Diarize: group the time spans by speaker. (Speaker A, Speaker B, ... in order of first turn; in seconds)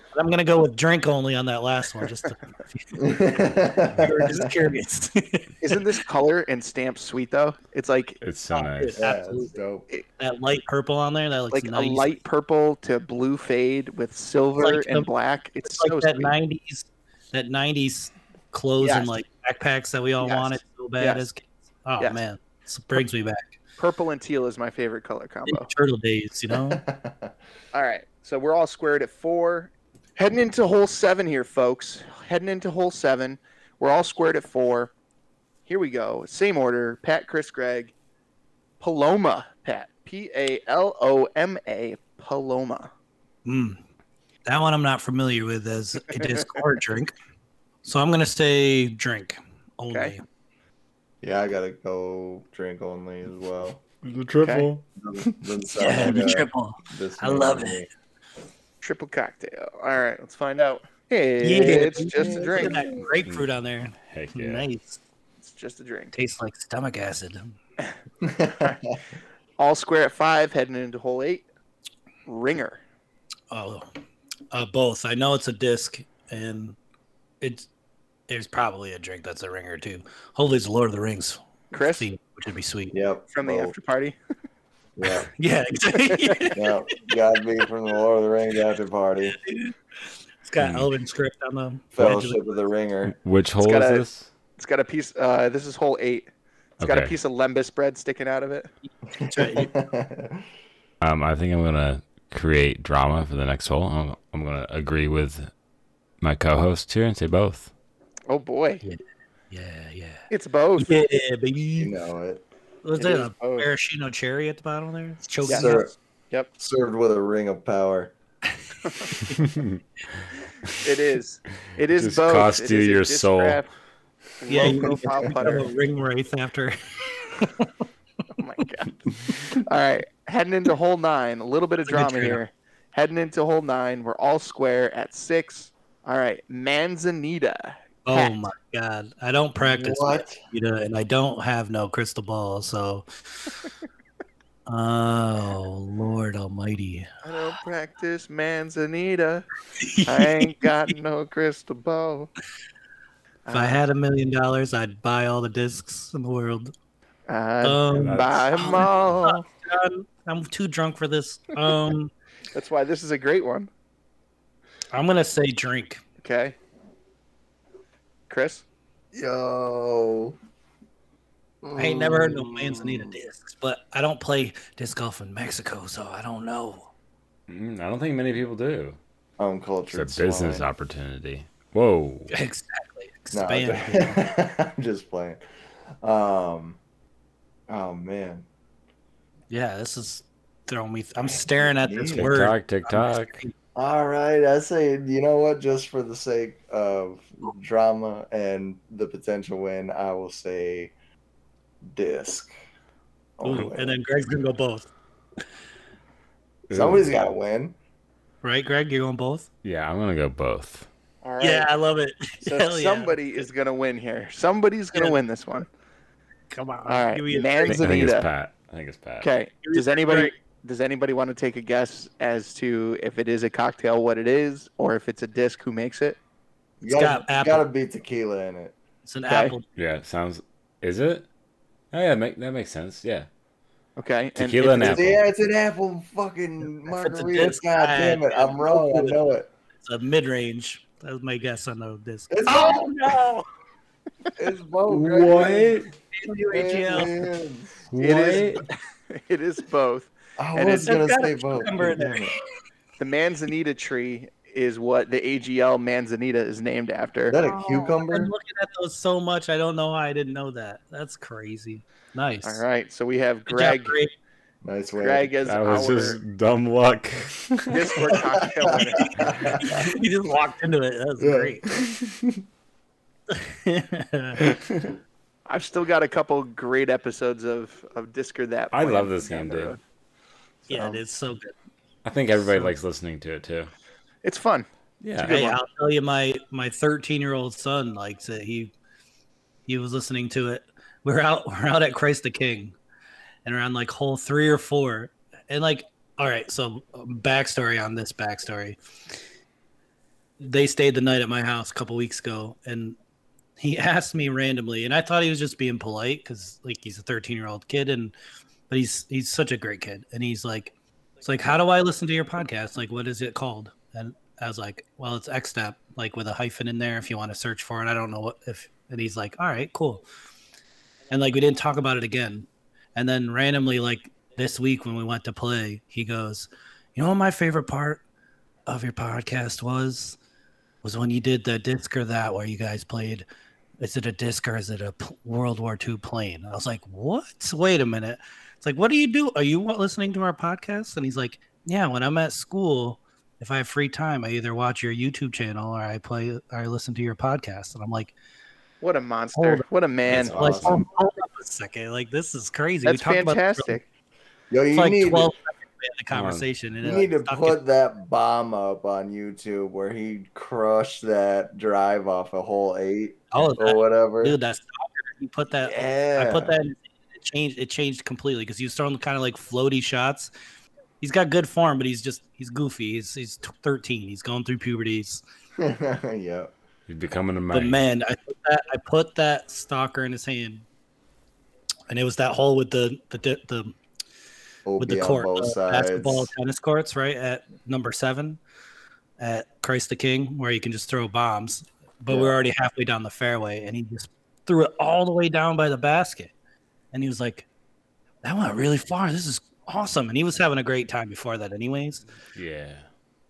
Speaker A: 0.1-3.1, 3.9-5.7, 8.5-9.6, 10.2-12.1, 14.6-15.1, 15.6-23.6, 25.5-26.8, 43.5-43.8, 44.5-47.1, 47.8-50.2, 55.8-57.8, 61.4-65.0, 66.1-67.5, 73.5-73.9, 74.5-76.8, 77.4-77.7, 78.3-83.0, 85.4-86.8, 89.3-89.8, 90.4-92.6, 99.1-99.7, 108.8-112.0, 112.8-115.9, 124.5-127.8, 131.9-132.4, 138.1-143.5, 144.7-147.1, 149.8-150.6, 153.5-156.7, 157.6-162.1, 164.9-166.0, 171.8-176.9, 182.3-184.2, 189.5-193.5, 203.4-204.9, 208.4-209.5, 211.4-213.1, 214.9-215.6, 216.5-217.8, 219.6-220.3, 226.9-227.6, 229.1-229.7, 236.9-239.2, 239.8-243.4, 246.1-247.1, 250.8-252.3, 257.4-262.6, 263.5-264.1, 269.0-271.8, 273.3-274.4, 280.7-281.5, 285.2-288.7, 289.7-292.8, 293.4-298.8, 300.4-302.9, 303.6-308.1, 308.7-320.0, 321.1-328.0, 328.7-330.2, 330.8-333.2, 333.8-348.1, 349.4-349.6, 350.1-353.8, 354.7-357.6, 363.3-370.3, 371.0-375.2, 377.5-380.6, 381.9-383.8, 384.8-388.4, 389.2-396.3, 396.9-397.4, 398.2-402.0
Speaker B: 2.9-4.5, 9.0-9.9, 26.5-27.3, 51.2-53.8, 55.0-57.9, 61.6-63.1, 68.2-68.7, 82.9-83.7, 85.0-85.3, 86.5-89.4, 91.9-93.1, 99.1-100.5, 111.8-112.4, 115.5-115.9, 116.6-118.1, 124.6-125.2, 139.6-140.4, 169.1-170.4, 171.6-173.1, 179.4-180.7, 183.3-185.4, 186.0-186.8, 187.7-188.5, 191.2-192.3, 193.7-200.9, 201.8-202.5, 203.4-204.0, 206.7-207.7, 226.8-228.8, 234.8-239.5, 242.3-242.9, 244.4-245.8, 246.5-247.8, 250.4-252.4, 257.3-258.3, 264.6-265.3, 268.8-269.9, 271.2-272.4, 274.4-274.9, 280.7-281.0, 350.1-350.8, 354.5-355.3, 356.8-364.4, 365.6-366.6, 375.6-376.5, 384.6-386.3, 392.1-392.4
Speaker C: 5.6-8.2, 11.5-16.4, 18.8-19.1, 20.2-21.2, 23.8-25.7, 27.7-34.9, 35.6-37.9, 38.8-42.9, 58.8-62.8, 65.4-66.1, 69.6-71.5, 72.2-72.8, 81.7-82.1, 83.3-84.2, 93.6-94.0, 94.5-96.3, 96.8-98.7, 108.3-108.8, 110.3-110.9, 113.0-113.7, 115.4-115.8, 118.8-119.2, 120.8-123.7, 124.4-125.7, 128.4-138.4, 147.2-149.4, 150.1-152.3, 153.4-153.8, 157.3-159.4, 162.5-163.7, 166.2-166.6, 168.3-168.6, 211.2-211.7, 212.4-215.7, 216.9-218.2, 219.2-226.2, 229.3-229.5, 234.0-235.0, 248.0-250.9, 253.0-257.4, 262.4-263.9, 265.0-266.2, 267.7-269.4, 275.5-279.8, 284.2-284.7, 285.2-285.6, 348.8-350.6, 352.8-353.8
Speaker D: 8.2-9.0, 54.0-54.8, 64.0-64.7, 90.6-90.9, 93.2-94.3, 96.8-97.1, 101.0-105.5, 106.2-107.7, 121.9-123.6, 157.9-159.1, 177.5-179.0, 179.9-182.3, 192.2-193.4, 206.7-207.1, 209.6-210.9, 217.7-219.3, 229.8-231.3, 231.9-233.3, 234.3-235.2, 244.9-245.9, 247.9-248.6, 265.4-268.1, 278.7-279.7, 282.0-283.7, 285.0-285.4, 350.1-350.8, 356.1-356.5, 376.9-377.8, 402.3-402.9